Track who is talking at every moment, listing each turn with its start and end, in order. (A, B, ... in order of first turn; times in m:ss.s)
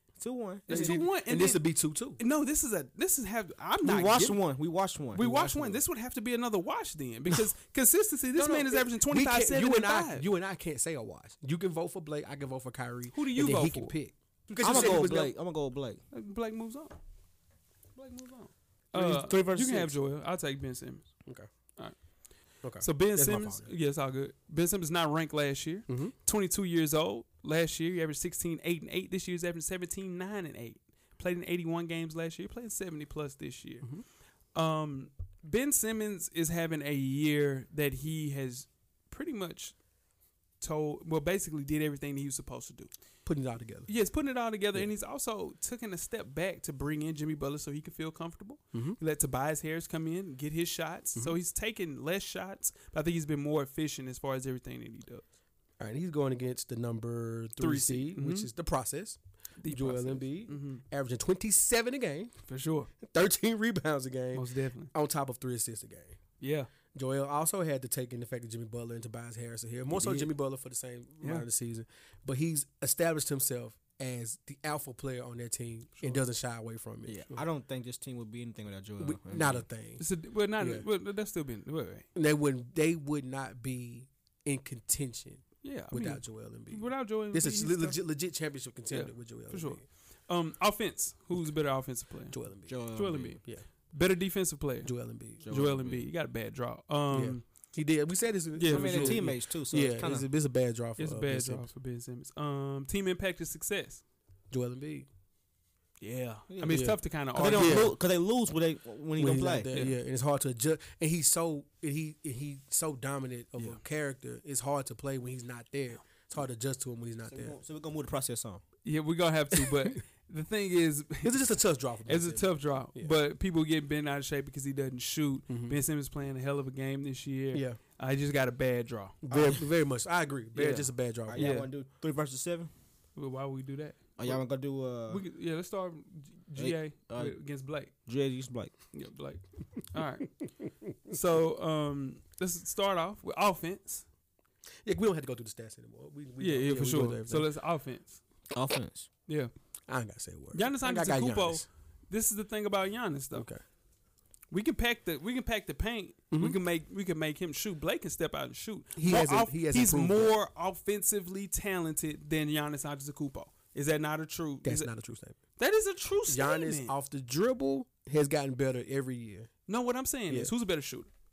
0:00.2-0:01.0 A
0:00.7-0:01.6 B
0:00.7-0:02.2 C
0:02.2-0:04.4 B
0:03.8-0:05.8 A
0:05.2-0:10.3 B
0:08.3-0:15.3 C
0:13.1-0:14.0 B
0:14.6-0:16.0 A
0:14.6-0:15.1 B
0:16.1-0:17.0 B
0:18.0-0:21.1 B
0:18.9-0:19.9 A
0:22.6-0:23.7 C
0:22.8-0:33.9 B
0:25.9-0:26.1 C
0:34.6-0:39.8 B
0:40.6-0:42.9 B
0:43.2-0:43.9 C
0:43.9-0:55.2 B
0:48.7-0:49.0 C
0:55.8-1:02.3 C
0:57.6-0:58.5 B
0:59.6-1:00.8 B
1:02.5-1:02.9 B
1:03.0-1:06.2 C
1:04.3-1:04.9 B
1:06.4-1:06.7 B
1:06.9-1:17.4 C
1:10.0-1:10.3 A
1:11.2-1:11.5 B
1:17.1-1:19.6 A
1:19.0-1:20.0 C
1:20.0-1:22.1 B
1:20.6-1:20.9 C
1:22.2-1:29.8 C
1:25.6-1:28.0 B
1:28.9-1:32.4 B
1:32.3-1:32.8 C
1:32.7-1:33.4 A
1:32.9-1:33.4 B
1:33.4-1:33.6 C
1:33.9-1:34.9 B
1:34.8-1:35.5 C
1:35.4-1:36.1 A
1:35.5-1:37.4 B
1:37.1-1:41.7 C
1:38.6-1:39.4 B
1:38.7-1:40.3 A
1:41.0-1:44.0 B
1:44.5-1:45.1 C
1:46.0-1:47.9 B
1:46.5-1:49.7 A
1:46.7-1:48.0 C
1:49.2-1:57.6 C
1:57.3-1:58.6 A
1:58.8-2:01.4 B
2:01.2-2:03.2 C
2:02.1-2:09.2 B
2:05.5-2:05.8 C
2:07.5-2:07.8 C
2:09.2-2:11.6 C
2:09.3-2:09.6 A
2:10.6-2:11.7 B
2:11.3-2:12.7 A
2:13.2-2:14.4 B
2:14.2-2:15.2 A
2:15.1-2:17.9 B
2:16.6-2:17.4 A
2:18.1-2:18.7 A
2:18.9-2:20.3 B
2:21.1-2:24.1 B
2:24.8-2:27.5 C
2:26.4-2:28.2 B
2:28.5-2:29.1 A
2:29.9-2:31.7 C
2:30.5-2:33.5 B
2:33.3-2:33.6 C
2:34.5-2:44.9 B
2:36.3-2:36.6 C
2:39.0-2:40.4 C
2:44.6-2:45.4 C
2:45.6-2:46.9 B
2:46.3-2:49.5 C
2:49.7-2:51.1 B